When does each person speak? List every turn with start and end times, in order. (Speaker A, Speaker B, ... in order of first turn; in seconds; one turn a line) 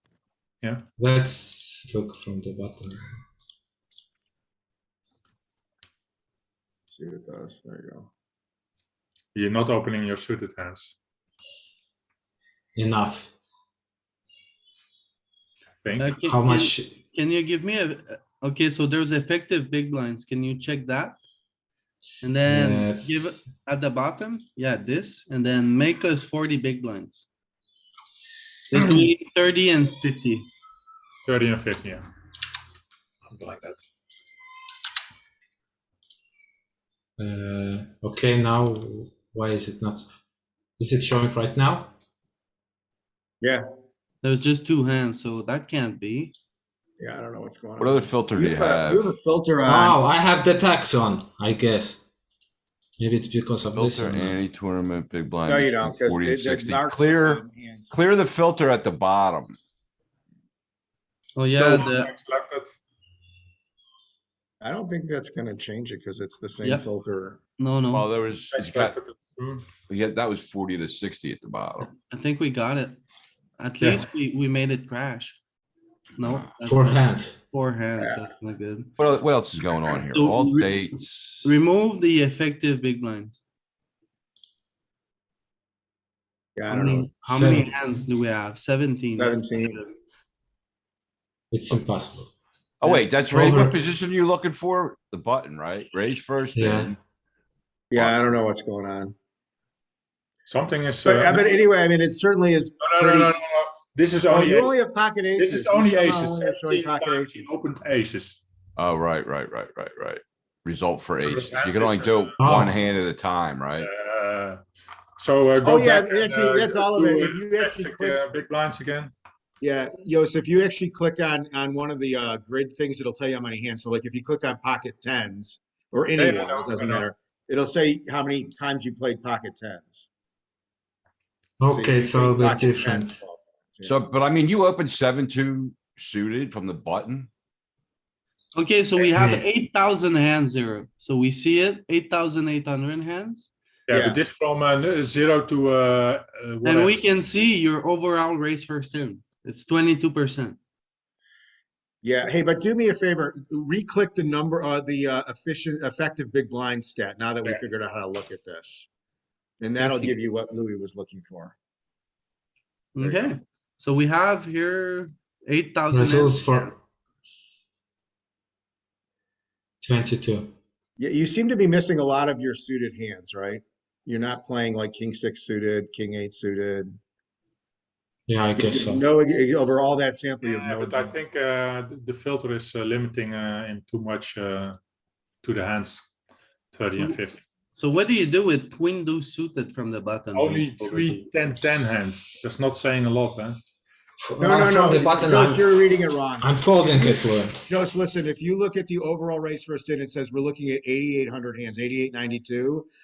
Speaker A: 1.0-3.2
Speaker B: 6.9-8.1
Speaker C: 9.3-10.9
Speaker A: 12.8-13.3
Speaker C: 15.8-16.1
Speaker D: 16.0-21.2
Speaker A: 16.2-17.0
Speaker D: 22.2-27.2
Speaker A: 22.5-23.3
Speaker D: 28.7-30.5
Speaker C: 31.3-32.0
Speaker C: 33.3-33.8
Speaker A: 37.2-40.1
Speaker A: 40.8-41.9
Speaker D: 44.2-46.3
Speaker B: 47.0-50.0
Speaker E: 47.8-49.1
Speaker A: 49.6-52.0
Speaker A: 53.0-54.5
Speaker E: 53.7-59.6
Speaker B: 55.4-58.0
Speaker D: 61.4-62.1
Speaker C: 61.6-62.8
Speaker B: 64.6-67.4
Speaker D: 67.6-68.1
Speaker E: 67.9-69.0
Speaker C: 68.5-69.7
Speaker E: 69.9-71.9
Speaker D: 72.1-73.0
Speaker D: 73.6-75.4
Speaker C: 73.8-74.1
Speaker D: 76.2-78.9
Speaker E: 76.2-76.5
Speaker A: 76.6-77.4
Speaker E: 79.0-81.5
Speaker D: 80.1-80.9
Speaker D: 81.4-83.4
Speaker B: 86.6-87.7
Speaker D: 86.7-89.9
Speaker B: 89.1-89.8
Speaker A: 91.5-92.3
Speaker E: 92.8-97.0
Speaker A: 93.3-93.8
Speaker A: 96.5-96.9
Speaker B: 97.9-99.1
Speaker E: 97.9-98.2
Speaker C: 100.5-101.6
Speaker B: 101.0-103.3
Speaker C: 102.8-104.7
Speaker B: 104.3-107.6
Speaker C: 105.4-108.4
Speaker E: 108.8-113.9
Speaker C: 111.2-112.3
Speaker A: 112.4-112.7
Speaker C: 113.8-114.6
Speaker C: 115.2-119.1
Speaker B: 115.6-118.2
Speaker B: 119.6-130.1
Speaker C: 126.2-127.1
Speaker A: 131.6-133.2
Speaker B: 131.7-134.0
Speaker E: 133.8-137.3
Speaker D: 138.6-143.5
Speaker A: 139.2-139.4
Speaker C: 143.9-147.1
Speaker B: 143.9-144.2
Speaker D: 146.6-150.6
Speaker B: 152.0-158.9
Speaker B: 159.6-161.5
Speaker D: 159.8-160.2
Speaker D: 162.9-166.5
Speaker B: 163.0-163.3
Speaker A: 165.9-166.8
Speaker A: 169.8-170.6
Speaker B: 171.0-177.0
Speaker A: 178.3-179.0
Speaker B: 178.6-181.2
Speaker C: 180.4-184.8
Speaker C: 185.4-186.1
Speaker C: 186.7-187.4
Speaker D: 186.9-187.2
Speaker D: 187.7-191.3
Speaker C: 190.3-193.6
Speaker A: 194.2-195.7
Speaker B: 194.4-196.5
Speaker A: 196.4-197.6
Speaker B: 197.7-202.9